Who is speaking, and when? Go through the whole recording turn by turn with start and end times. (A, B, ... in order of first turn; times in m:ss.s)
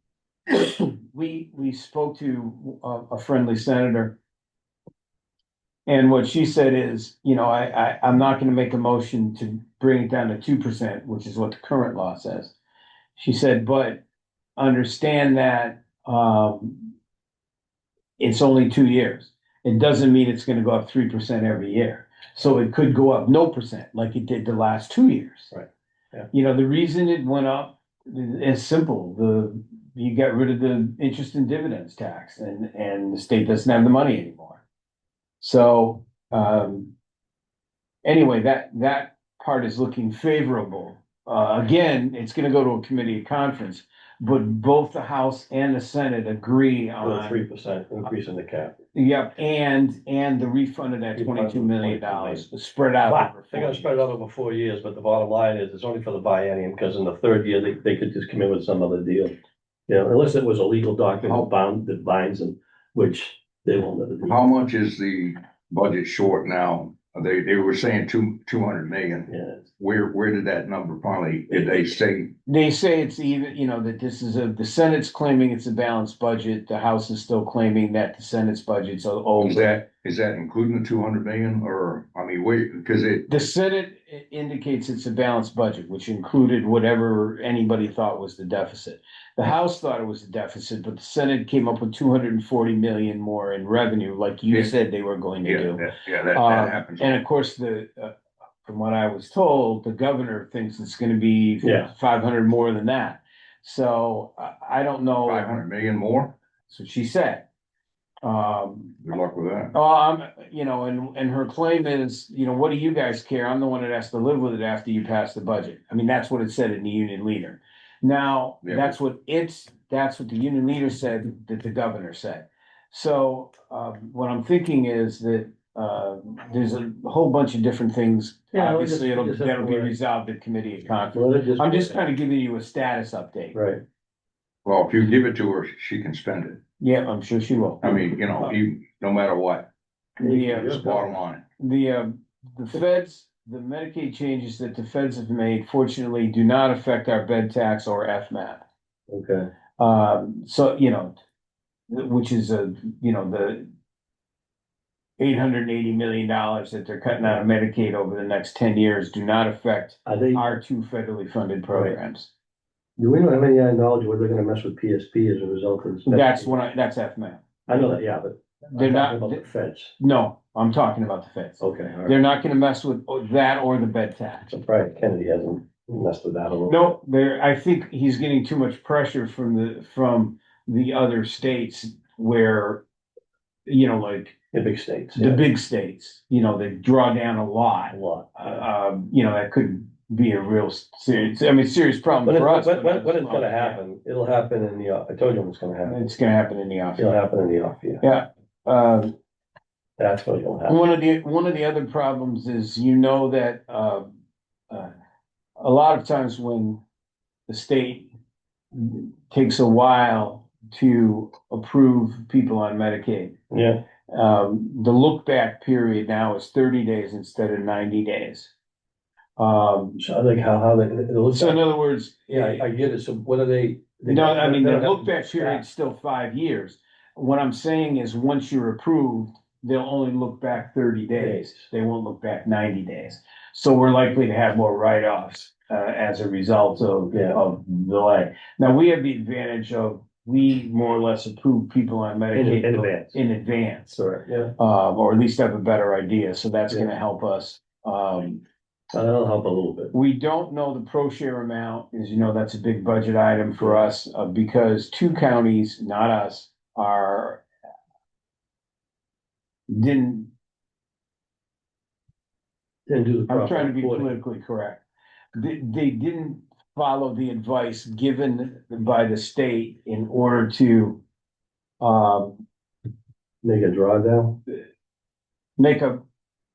0:00.5-0:04.2 A
0:05.8-0:12.6 A
0:13.2-0:14.0 A
0:14.6-0:16.9 A
0:18.2-0:25.5 A
0:25.5-0:26.3 B
0:26.3-0:34.6 A
0:35.4-0:36.9 A
0:38.0-0:47.4 A
0:47.0-0:48.8 B
0:48.9-0:54.1 A
0:51.1-0:52.4 B
0:53.0-0:59.4 B
0:59.9-1:04.4 B
1:04.3-1:12.3 C
1:09.3-1:09.6 B
1:11.5-1:11.9 B
1:12.4-1:19.7 A
1:19.4-1:23.5 C
1:23.3-1:45.5 A
1:34.5-1:34.8 C
1:35.4-1:37.1 C
1:41.6-1:41.9 B
1:45.2-1:46.3 C
1:46.7-1:47.4 A
1:48.2-1:49.0 A
1:49.0-1:49.7 C
1:49.7-2:13.6 A
1:58.6-1:59.0 C
2:08.5-2:09.9 B
2:11.1-2:12.0 B
2:13.5-2:13.8 B
2:14.6-2:16.6 C
2:16.8-2:18.5 A
2:17.8-2:19.7 C
2:20.2-2:20.8 A
2:20.2-2:21.0 B
2:20.7-2:21.4 C
2:21.6-2:28.6 A
2:29.1-2:29.5 B
2:29.8-2:31.2 A
2:31.9-2:33.7 A
2:35.2-2:42.3 A
2:40.0-2:40.4 B
2:43.0-2:46.5 B
2:46.0-2:48.0 A
2:47.7-2:49.9 B
2:48.7-2:49.4 A
2:50.0-2:54.5 A
2:51.6-2:52.2 B
2:54.5-2:56.9 B
2:56.7-3:02.8 A
3:03.6-3:04.4 A
3:04.5-3:05.4 B
3:05.2-3:13.8 A
3:07.9-3:08.6 B
3:12.2-3:16.0 B
3:15.9-3:17.1 A
3:17.0-3:18.0 B
3:18.0-3:19.1 A
3:20.0-3:20.8 B
3:20.7-3:24.0 A
3:25.6-3:26.8 A
3:27.5-3:28.1 A
3:28.7-3:33.4 A
3:33.5-3:33.8 B
3:34.1-3:38.5 A
3:39.4-3:40.0 A
3:40.0-3:41.6 B
3:41.3-3:42.6 A
3:42.3-3:45.6 B
3:44.1-4:03.9 A
3:51.1-3:51.6 B
3:57.1-3:57.4 B
4:02.3-4:03.2 B
4:03.9-4:04.5 B
4:04.6-4:08.4 A
4:08.9-4:09.9 B
4:09.9-4:17.4 A
4:13.6-4:13.8 B
4:19.7-4:20.3 A
4:22.9-4:24.1 B
4:23.3-4:24.8 A
4:25.3-4:31.0 A
4:31.8-4:32.4 A
4:33.4-4:34.4 B
4:35.6-4:36.0 A